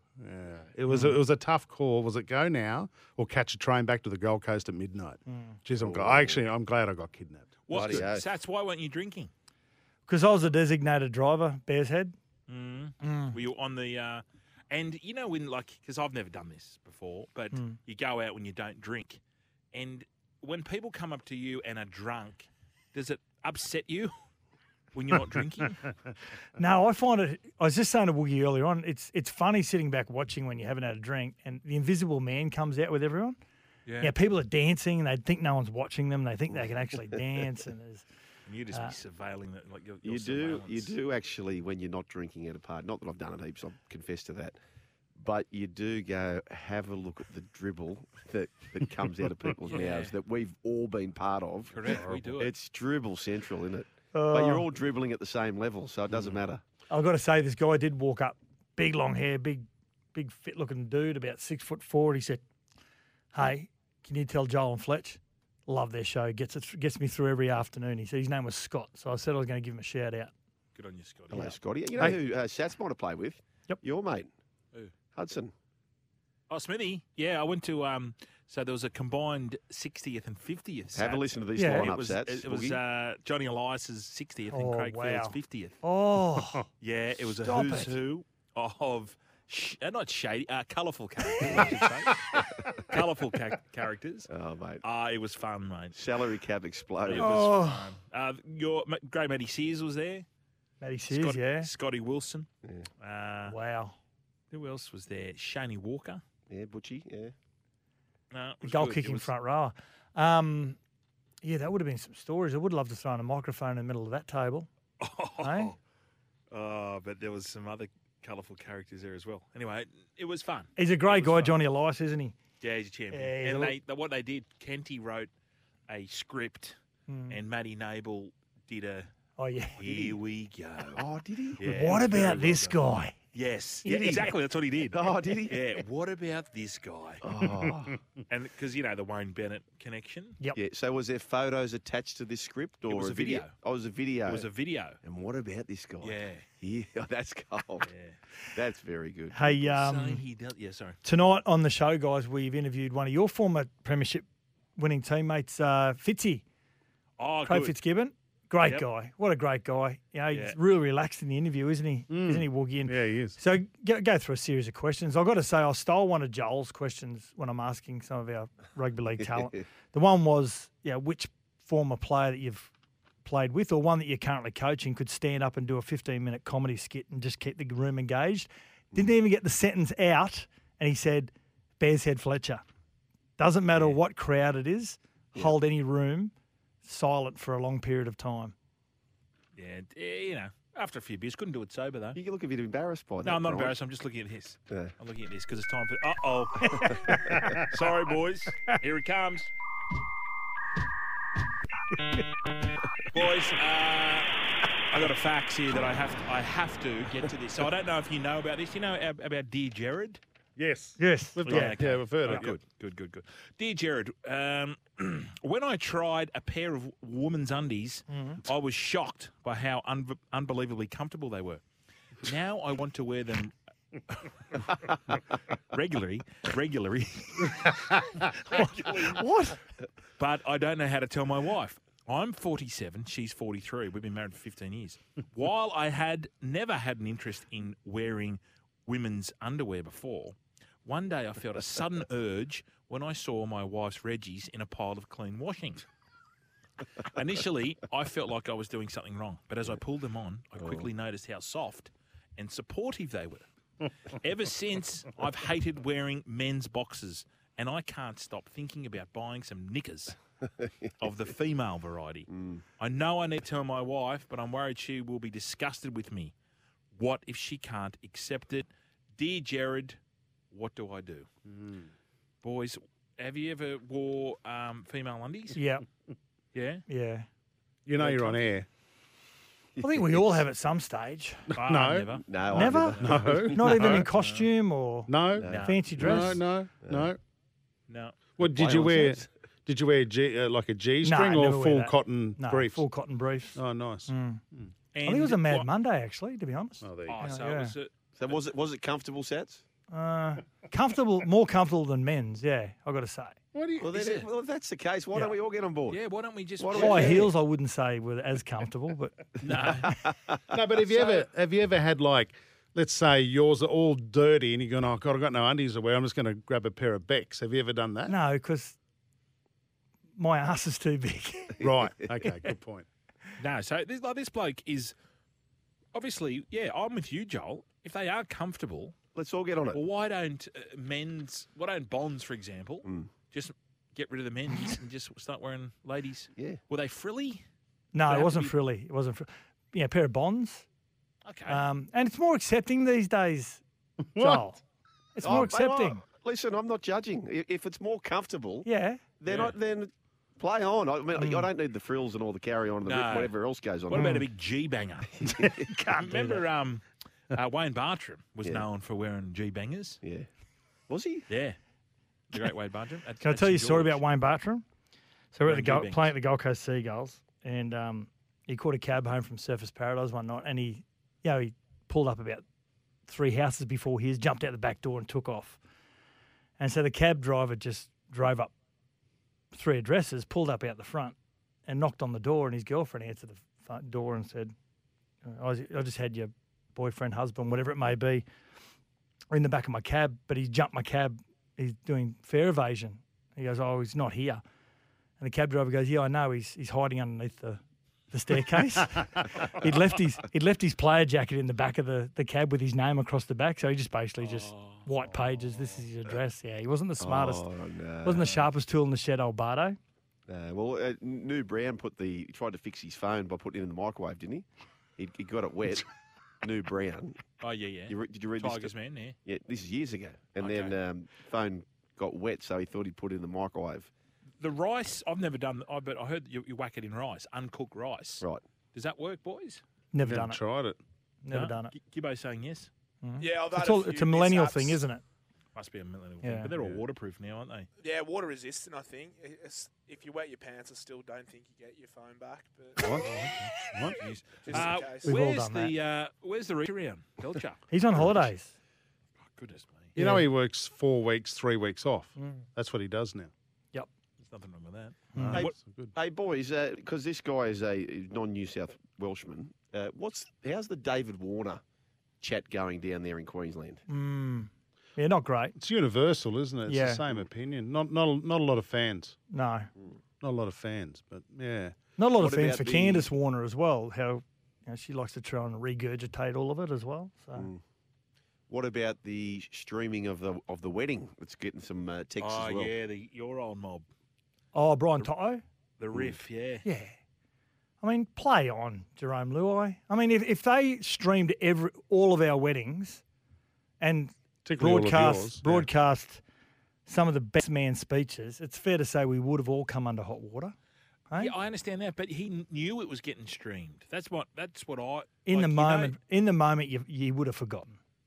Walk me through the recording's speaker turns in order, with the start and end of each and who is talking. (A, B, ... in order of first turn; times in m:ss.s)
0:00.2-0:08.1 A
0:00.9-0:01.2 B
0:05.3-0:05.6 B
0:05.8-0:06.4 C
0:07.7-0:09.3 D
0:07.7-0:08.3 C
0:10.1-0:12.2 B
0:12.5-0:19.2 D
0:13.0-0:13.4 B
0:19.7-0:24.1 D
0:24.9-0:25.9 D
0:26.6-0:33.4 B
0:33.8-0:34.1 D
0:34.0-0:38.0 B
0:38.4-0:40.9 D
0:40.0-0:44.6 C
0:45.2-0:56.6 C
0:49.7-0:50.1 D
0:51.7-0:52.5 D
0:51.8-0:52.4 A
0:54.1-0:54.7 B
0:56.9-1:02.4 B
1:03.3-1:10.3 B
1:10.7-1:11.6 D
1:11.3-1:14.3 C
1:15.1-1:15.5 C
1:16.5-1:25.8 D
1:20.9-1:22.8 C
1:21.6-1:21.9 B
1:24.5-1:26.6 B
1:26.8-1:34.3 D
1:27.3-1:27.9 B
1:31.4-1:32.8 C
1:34.3-1:34.8 C
1:34.8-1:36.0 D
1:35.9-1:37.5 C
1:37.0-1:40.2 D
1:37.2-1:37.9 B
1:40.8-1:41.7 B
1:41.1-1:42.5 D
1:43.0-1:43.5 D
1:43.4-1:44.0 B
1:44.5-1:46.2 D
1:46.5-1:47.3 C
1:48.3-1:49.3 D
1:48.6-1:50.8 B
1:51.4-1:54.7 B
1:55.0-1:55.8 D
1:55.4-1:55.7 B
1:56.5-2:01.6 D
2:00.8-2:02.4 B
2:02.6-2:05.3 D
2:03.1-2:03.8 B
2:05.9-2:06.8 D
2:07.1-2:07.4 B
2:07.3-2:09.1 D
2:09.4-2:09.8 B
2:09.8-2:11.0 D
2:09.9-2:10.2 C
2:11.0-2:11.6 C
2:11.6-2:12.8 D
2:11.6-2:13.1 B
2:13.3-2:17.2 D
2:13.8-2:14.3 C
2:13.9-2:14.2 B
2:14.8-2:15.7 C
2:17.2-2:18.0 C
2:18.3-2:20.4 D
2:20.5-2:24.4 C
2:22.9-2:23.5 D
2:24.2-2:25.0 D
2:25.0-2:27.9 C
2:26.0-2:26.4 D
2:27.8-2:28.2 D
2:28.5-2:29.6 C
2:29.3-2:30.2 B
2:29.6-2:31.0 D
2:31.0-2:34.2 B
2:34.8-2:36.4 B
2:37.2-2:37.8 D
2:37.4-2:52.7 B
2:40.3-2:40.6 D
2:42.1-2:43.4 A
2:53.2-3:02.6 B
3:03.4-3:08.5 B
3:03.7-3:04.0 D
3:09.6-3:12.2 D
3:12.1-3:13.8 C
3:13.2-3:19.5 D
3:16.6-3:17.5 B
3:23.1-3:24.3 D
3:24.9-3:30.2 D
3:30.6-3:32.6 A
3:31.0-3:31.8 B
3:31.5-3:41.6 D
3:38.1-3:38.4 B
3:42.2-3:43.5 D
3:44.1-3:44.9 D
3:45.7-3:49.2 D
3:48.5-3:49.6 B
3:50.2-4:05.8 D
4:07.0-4:13.4 D
4:10.6-4:10.9 C
4:14.1-4:20.2 D
4:20.6-4:20.9 C
4:21.0-4:26.3 D
4:22.3-4:22.6 C
4:27.0-4:30.0 D
4:30.5-4:31.3 D
4:31.5-4:31.9 A
4:32.4-4:35.6 D
4:35.6-4:35.8 B
4:36.5-4:36.8 D
4:36.9-4:37.3 B
4:37.8-4:38.7 A
4:38.0-4:38.4 D
4:39.8-4:41.4 B
4:41.5-4:44.1 A
4:41.6-4:42.4 D
4:42.2-4:43.8 C
4:42.5-4:46.4 B
4:44.0-4:44.5 D
4:45.1-4:47.2 A
4:45.4-4:47.1 C
4:45.4-4:46.3 D
4:47.9-4:49.0 D
4:48.4-4:52.8 A
4:48.6-4:49.2 C
4:51.0-4:54.4 B
4:53.5-4:54.7 A
4:54.9-4:55.7 D
4:55.0-4:57.7 B
4:56.8-4:57.2 A
4:57.1-4:58.4 D
4:58.2-4:59.6 C
4:59.9-5:03.4 B
5:03.5-5:03.9 A
5:03.8-5:06.0 C
5:03.9-5:04.3 D
5:05.9-5:07.2 D
5:06.6-5:07.3 C
5:06.7-5:10.0 B
5:09.4-5:09.9 D
5:09.6-5:11.2 C
5:10.5-5:18.2 A
5:18.1-5:18.8 B
5:20.2-5:21.6 B
5:21.6-5:22.0 C
5:21.6-5:22.8 A
5:23.4-5:24.9 D
5:25.9-5:29.0 D
5:29.1-5:29.8 C
5:29.7-5:37.4 D
5:32.8-5:33.1 C
5:36.4-5:36.6 C
5:37.9-5:40.6 B
5:38.1-5:38.5 D
5:41.2-5:41.6 D
5:41.4-5:43.6 B
5:44.1-5:44.5 A
5:44.2-5:44.6 B
5:45.2-5:46.0 B
5:45.2-5:48.7 C
5:48.6-5:49.0 B
5:49.2-5:54.2 C
5:49.2-5:49.6 D
5:51.1-5:51.5 B
5:52.8-6:00.0 D
5:53.9-5:54.2 B
5:55.2-5:55.8 C
6:00.0-6:00.3 C
6:00.9-6:01.3 C
6:01.3-6:01.6 D
6:02.3-6:04.0 D
6:03.2-6:04.6 B
6:05.3-6:12.4 B
6:05.4-6:06.1 D
6:13.0-6:15.6 B
6:16.6-6:18.5 B
6:19.5-6:21.1 B
6:21.6-6:24.5 B
6:25.2-6:28.2 B
6:29.3-6:34.4 B
6:35.2-6:47.5 B
6:44.2-6:44.8 D
6:47.0-6:48.4 C
6:48.0-6:49.8 B
6:48.2-6:48.5 D
6:50.3-6:54.4 C
6:55.0-6:55.9 C
6:56.4-6:57.2 C
6:57.4-6:59.2 D
6:57.9-6:58.7 C
6:59.2-7:03.9 C
7:00.4-7:00.8 D
7:04.4-7:09.6 D
7:09.9-7:10.4 B
7:10.0-7:10.8 A
7:11.2-7:11.7 B
7:11.3-7:12.7 D
7:13.0-7:15.0 B
7:13.2-7:14.8 E
7:15.5-7:17.7 D
7:16.2-7:16.5 B
7:16.5-7:16.8 A
7:17.8-7:22.9 E
7:22.8-7:24.0 A
7:24.0-7:27.6 D
7:24.4-7:25.1 E
7:25.0-7:25.8 B
7:27.7-7:28.5 B
7:27.9-7:28.3 A
7:29.3-7:30.0 D
7:30.0-7:30.3 B
7:30.0-7:33.3 A
7:34.2-7:35.4 D
7:35.1-7:35.4 B
7:35.2-7:35.9 A
7:35.3-7:41.6 C
7:42.2-7:43.8 C
7:43.9-7:45.6 B
7:45.6-7:49.2 A
7:46.7-7:47.0 B
7:49.3-7:49.7 B
7:50.2-7:51.8 A
7:52.0-7:57.5 B
7:52.2-7:53.1 C
7:57.3-7:57.6 C
7:58.5-8:02.7 C
8:02.2-8:03.9 D
8:04.5-8:05.4 B
8:05.8-8:06.6 D
8:06.6-8:06.9 B
8:07.8-8:13.0 B
8:13.8-8:16.2 B
8:14.4-8:15.7 A
8:16.8-8:20.5 B
8:21.1-8:26.0 D
8:25.2-8:27.8 B